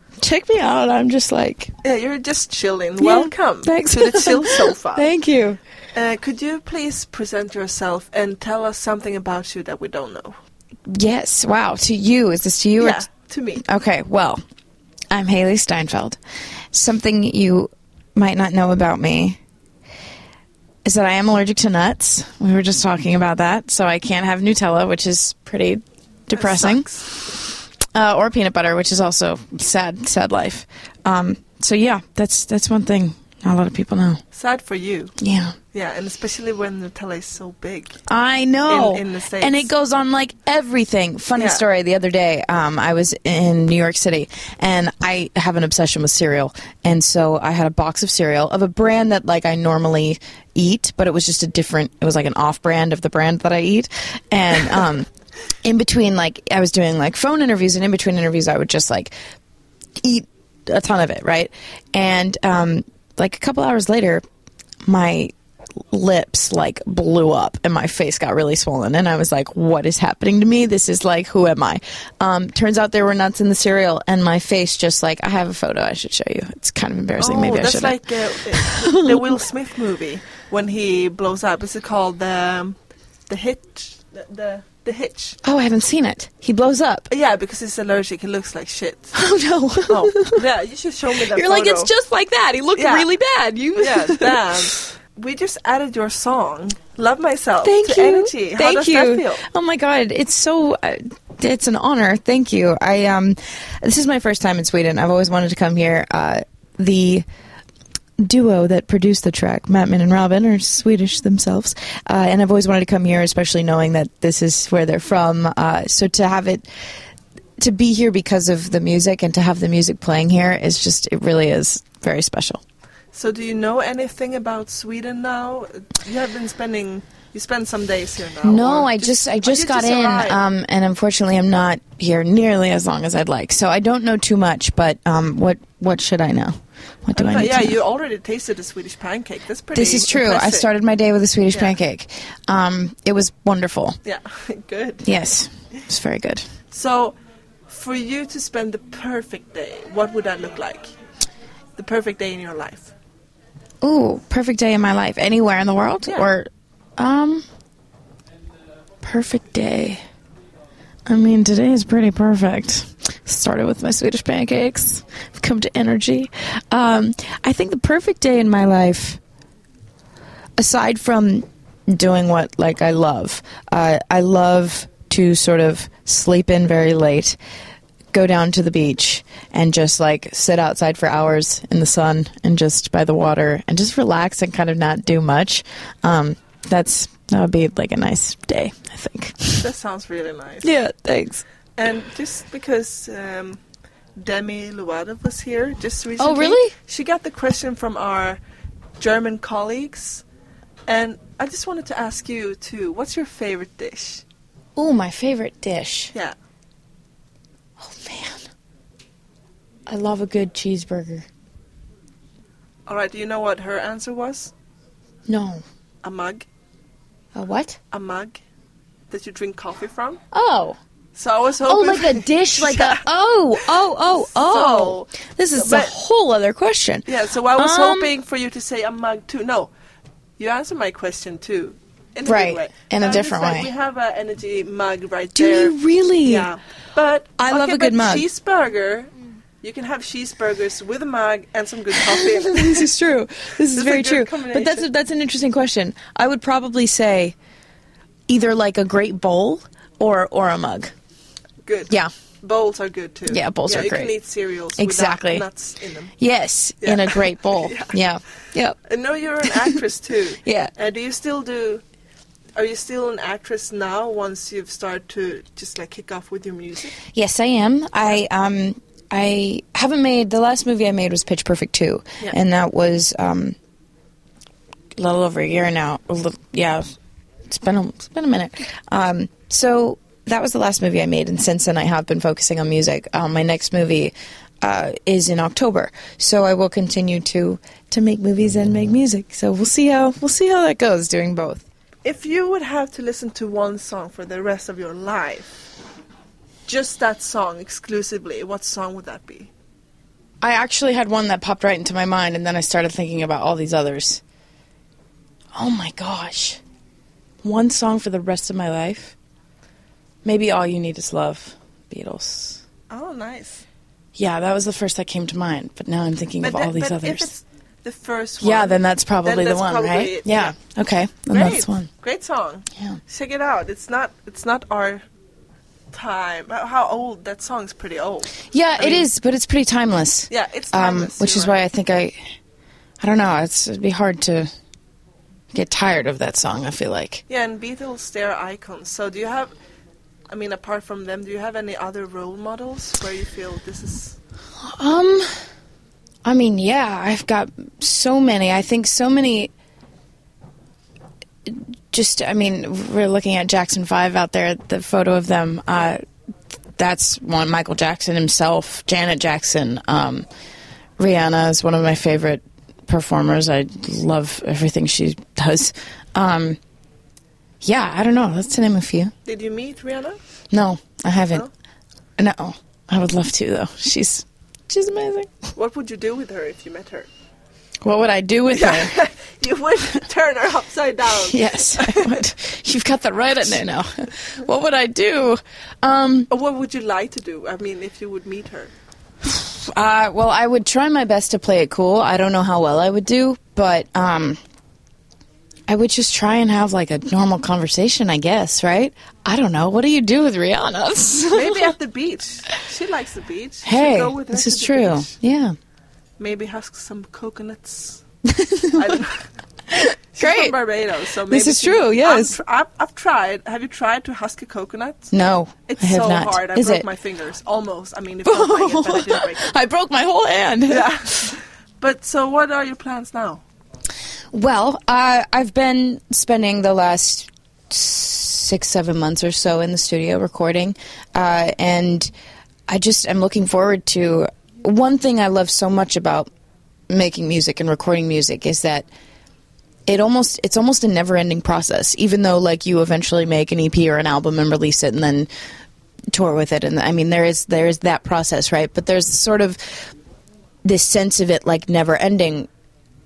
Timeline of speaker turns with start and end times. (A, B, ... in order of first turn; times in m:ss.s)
0:00.2-0:01.7 A
0:01.8-0:05.1 B
0:03.0-0:05.6 A
0:05.9-0:10.4 B
0:10.9-0:13.0 A
0:12.8-0:13.6 B
0:13.6-0:14.4 A
0:15.1-0:16.2 A
0:16.7-0:19.4 A
0:20.8-0:34.2 A
0:26.3-0:27.1 B
0:34.3-0:35.2 B
0:35.2-0:35.6 A
0:35.7-0:38.0 B
0:38.1-0:55.1 A
0:38.7-0:39.7 B
0:41.4-0:41.6 B
0:55.6-0:59.1 A
1:00.0-1:04.2 A
1:04.8-1:05.3 A
1:05.9-1:18.0 A
1:17.2-1:22.8 B
1:18.5-1:19.2 A
1:23.3-1:25.4 B
1:25.4-1:27.1 A
1:27.1-1:29.2 B
1:29.1-1:30.4 A
1:29.9-1:31.9 B
1:31.2-1:34.7 A
1:32.7-1:33.1 B
1:33.8-1:39.4 B
1:37.6-1:47.2 A
1:48.2-1:56.7 A
1:57.6-2:02.6 A
2:03.1-2:10.4 B
2:08.4-2:17.8 A
2:17.1-2:20.7 B
2:19.7-2:24.0 A
2:21.5-2:21.8 B
2:24.0-2:25.1 B
2:25.0-2:26.4 A
2:26.7-2:27.2 B
2:27.7-2:30.9 B
2:31.8-2:32.9 B
2:33.8-2:37.4 A
2:36.0-2:36.3 B
2:39.0-2:40.0 A
2:41.1-2:49.2 A
2:50.6-2:57.4 A
2:58.1-3:09.6 A
3:09.6-3:10.7 B
3:10.6-3:11.4 A
3:11.8-3:13.6 B
3:14.2-3:18.4 B
3:16.2-3:16.7 A
3:19.0-3:20.2 B
3:20.8-3:24.2 B
3:24.8-3:26.1 A
3:27.8-3:28.4 A
3:29.9-3:31.2 A
3:32.8-3:34.5 B
3:35.3-3:35.6 A
3:36.0-3:36.4 B
3:37.3-3:37.8 A
3:37.9-3:38.4 B
3:39.1-3:40.2 B
3:40.3-3:40.8 A
3:41.1-3:43.0 B
3:41.6-3:48.1 A
3:44.2-3:46.0 B
3:47.0-3:49.7 B
3:50.4-3:59.1 B
3:52.2-3:53.7 A
3:55.4-3:56.5 A
3:57.4-3:58.2 A
3:59.6-4:02.9 B
4:02.0-4:07.3 A
4:03.7-4:04.9 B
4:08.3-4:10.9 A
4:11.6-4:16.1 B
4:13.3-4:14.2 A
4:14.8-4:15.4 A
4:16.2-4:18.8 A
4:16.8-4:17.9 B
4:18.8-4:21.8 B
4:19.4-4:19.8 A
4:20.4-4:20.7 A
4:22.6-4:27.0 B
4:27.1-4:33.6 A
4:35.0-4:36.8 A
4:37.5-4:51.6 A
4:52.0-4:55.6 B
4:56.7-4:59.5 B
5:00.4-5:04.2 A
5:05.5-5:06.6 A
5:07.4-5:09.1 A
5:10.2-5:12.6 A
5:12.9-5:13.6 B
5:14.2-5:17.3 A
5:16.4-5:20.6 B
5:18.4-5:21.9 A
5:21.3-5:25.0 B
5:25.9-5:29.1 B
5:28.5-5:32.1 A
5:30.3-5:31.6 B
5:33.0-5:34.5 A
5:35.5-5:37.2 A
5:37.3-5:39.5 B
5:40.3-5:44.2 B
5:44.6-5:45.4 A
5:46.2-5:49.5 A
5:51.4-5:56.0 A
5:56.8-6:00.2 A
6:01.0-6:06.6 A
6:07.6-6:09.1 A
6:09.2-6:10.2 B
6:10.5-6:11.5 A
6:12.2-6:15.3 A
6:15.5-6:17.1 B
6:17.8-6:19.0 A
6:18.5-6:22.2 B
6:21.1-6:26.3 A
6:26.3-6:28.7 B
6:29.2-6:34.4 A
6:35.7-6:41.7 A
6:41.2-6:45.1 B
6:43.6-6:45.5 A
6:46.2-6:48.0 B
6:48.2-6:49.0 A
6:48.7-6:49.3 B
6:49.7-6:50.5 A
6:50.1-6:55.1 B
6:51.2-6:52.4 A
6:55.1-6:56.8 A
6:55.6-6:59.5 B
6:58.2-7:01.0 A
7:00.7-7:03.4 B
7:04.3-7:12.1 A
7:12.7-7:16.3 A
7:16.9-7:18.9 A
7:19.8-7:25.3 A
7:26.1-7:29.9 A
7:30.6-7:32.5 A